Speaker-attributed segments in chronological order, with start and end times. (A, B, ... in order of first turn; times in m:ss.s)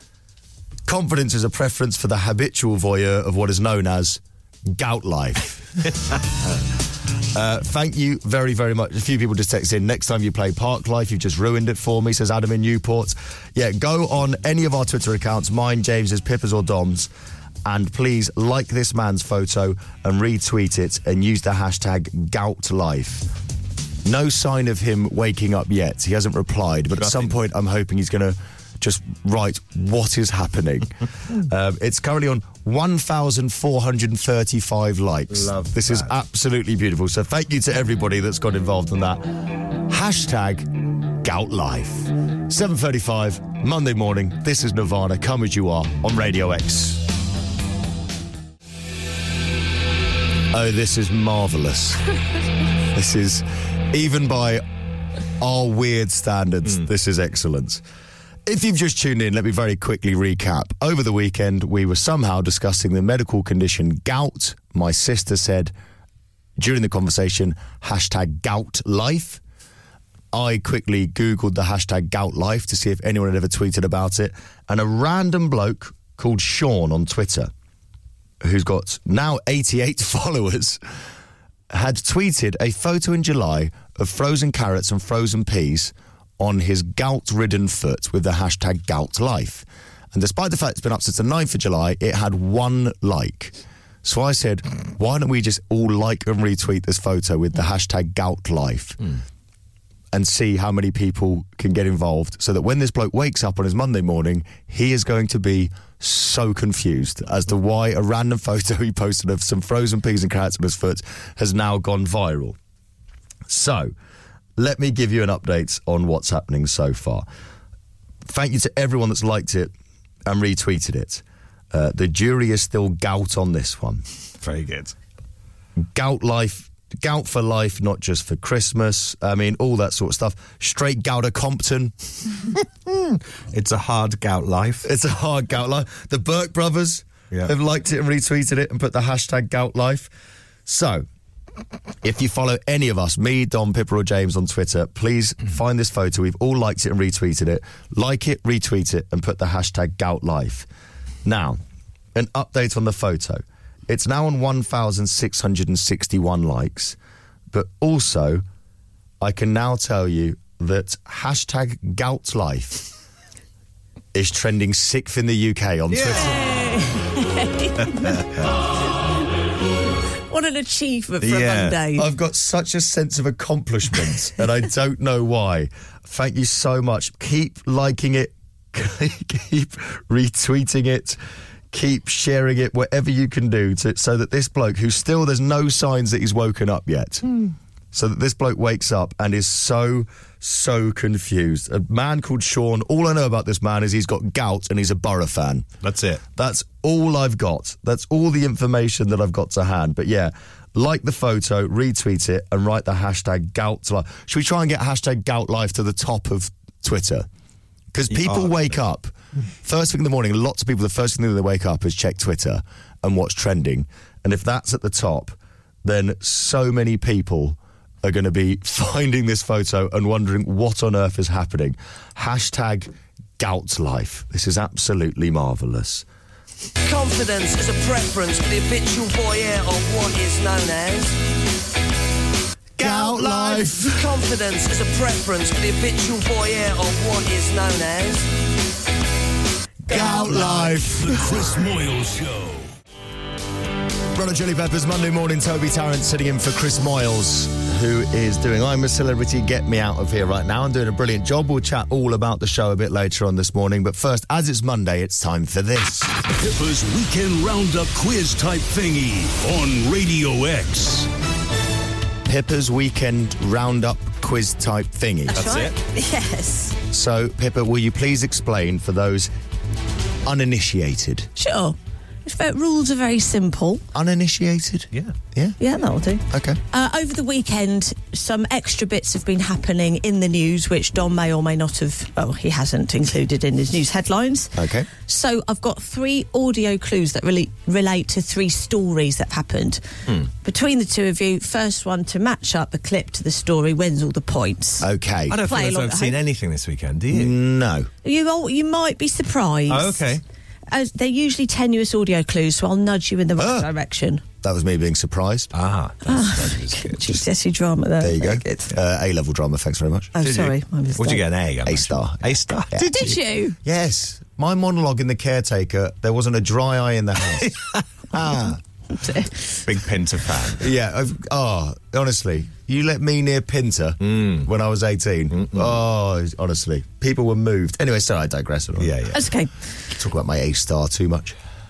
0:00.9-0:05.9 A
0:07.3-0:17.1 A
0:17.6-0:23.3 A
0:24.0-0:39.3 A
0:27.0-0:27.4 B
0:35.3-0:36.1 B
0:39.9-0:47.1 A
0:50.5-0:52.0 A
0:52.9-0:54.6 A
0:55.4-0:57.8 A
0:58.5-1:05.7 A
1:06.6-1:09.4 A
1:10.3-1:17.5 A
1:18.4-1:20.8 A
1:21.7-1:39.0 A
1:40.1-1:52.6 A
1:53.5-1:53.9 A
1:54.6-1:57.3 A
1:58.3-1:59.7 A
2:00.3-2:04.0 A
2:04.4-2:05.0 B
2:05.8-2:11.9 A
2:12.9-2:14.9 B
2:14.8-2:20.1 A
2:20.7-2:21.1 A
2:22.0-2:30.7 A
2:31.2-2:31.6 A
2:32.2-2:37.0 A
2:37.5-2:38.4 A
2:39.2-2:42.9 A
2:44.1-2:46.4 A
2:45.9-2:46.4 B
2:46.1-2:48.2 C
2:47.8-2:48.5 B
2:50.3-2:52.1 C
2:51.2-2:51.8 B
2:51.9-3:01.2 A
3:01.7-3:07.4 A
3:07.9-3:15.7 A
3:15.8-3:16.2 B
3:16.4-3:27.3 A
3:27.9-3:29.1 A
3:28.1-3:28.7 B
3:29.6-3:46.1 A
3:46.8-3:51.2 D
3:52.8-3:54.1 A
3:53.8-3:58.3 D
3:59.9-4:01.4 A
3:59.9-4:00.8 C
3:59.9-4:02.7 E
4:04.1-4:16.1 A
4:16.4-4:21.1 E
4:22.2-4:25.6 A
4:25.3-4:26.8 C
4:25.4-4:25.8 B
4:26.9-4:29.3 A
4:30.2-4:31.3 A
4:31.4-4:33.8 C
4:33.9-4:35.6 A
4:35.6-4:49.8 C
4:36.3-4:36.6 A
4:44.6-4:44.9 A
4:50.4-4:54.9 C
4:54.8-4:55.4 A
4:55.3-4:57.4 B
4:55.4-4:56.2 C
4:57.1-4:57.9 A
4:58.0-5:00.1 C
4:59.7-5:00.2 B
5:00.7-5:04.2 C
5:03.4-5:03.7 A
5:04.4-5:05.5 A
5:05.5-5:07.2 B
5:06.1-5:08.7 C
5:08.0-5:10.2 A
5:10.2-5:11.3 C
5:10.2-5:13.2 B
5:11.6-5:13.1 A
5:12.8-5:13.6 C
5:13.6-5:17.6 A
5:17.4-5:17.8 B
5:18.1-5:18.6 A
5:18.9-5:19.6 C
5:19.7-5:20.6 B
5:20.6-5:28.9 A
5:24.0-5:24.5 B
5:25.3-5:25.8 B
5:28.8-5:29.2 B
5:29.1-5:29.5 C
5:29.9-5:31.4 A